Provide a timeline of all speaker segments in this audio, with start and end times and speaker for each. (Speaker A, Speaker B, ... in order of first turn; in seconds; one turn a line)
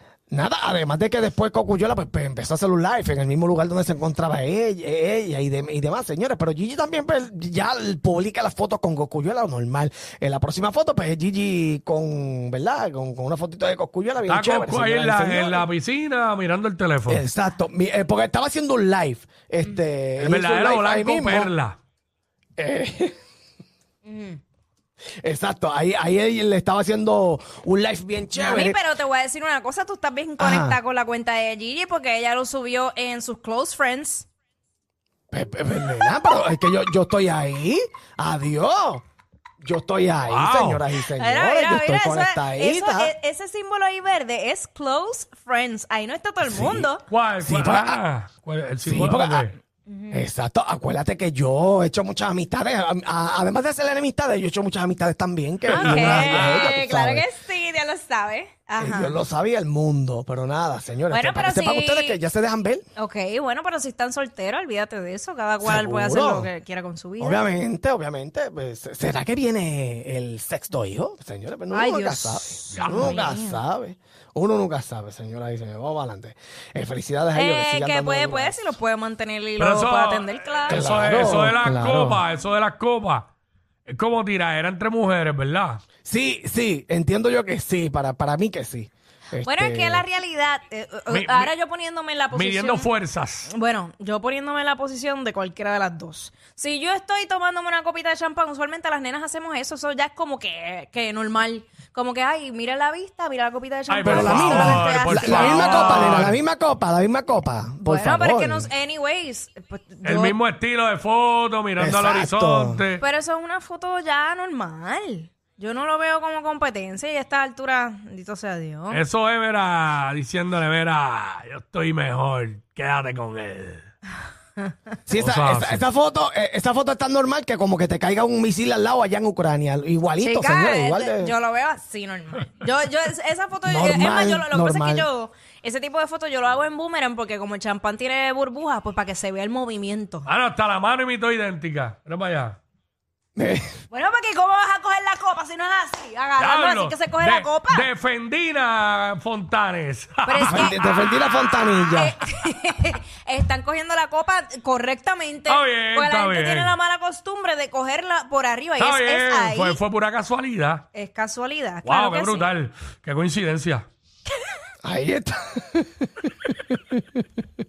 Speaker A: 0.3-15.7
Speaker B: 14.2-17.2
Speaker A: 17.1-21.5
Speaker B: 20.2-21.8
Speaker A: 22.6-23.1
Speaker C: 24.0-24.4
Speaker A: 25.2-28.8
Speaker C: 28.4-34.3
Speaker A: 30.4-30.8
Speaker A: 35.3-39.0
Speaker A: 39.6-43.1
Speaker B: 40.3-40.8
Speaker C: 41.1-47.0
Speaker A: 46.4-48.0
Speaker B: 47.1-49.5
Speaker A: 48.8-49.5
Speaker C: 49.9-50.2
Speaker A: 50.1-57.3
Speaker B: 55.6-56.7
Speaker C: 55.7-59.2
Speaker A: 58.8-62.8
Speaker C: 61.1-62.2
Speaker C: 63.0-67.4
Speaker A: 65.6-66.5
Speaker A: 67.2-78.7
Speaker C: 71.7-73.6
Speaker B: 72.7-73.2
Speaker C: 77.3-81.3
Speaker B: 79.6-83.3
Speaker A: 80.7-82.2
Speaker B: 83.9-85.8
Speaker A: 86.0-90.0
Speaker C: 89.4-92.9
Speaker B: 91.1-91.5
Speaker B: 92.3-93.5
Speaker C: 93.5-106.3
Speaker B: 103.9-106.4
Speaker A: 104.0-108.7
Speaker C: 107.8-110.4
Speaker B: 110.0-113.0
Speaker A: 111.8-112.8
Speaker C: 113.0-119.0
Speaker B: 118.9-123.9
Speaker A: 125.1-131.3
Speaker B: 125.1-125.8
Speaker C: 130.2-140.3
Speaker A: 133.6-135.1
Speaker B: 140.2-142.6
Speaker A: 143.3-143.7
Speaker C: 143.9-147.9
Speaker B: 146.4-150.8
Speaker C: 150.2-159.8
Speaker A: 150.4-152.2
Speaker B: 155.5-156.8
Speaker B: 158.8-160.8
Speaker C: 160.9-162.5
Speaker B: 161.8-163.9
Speaker A: 164.8-167.2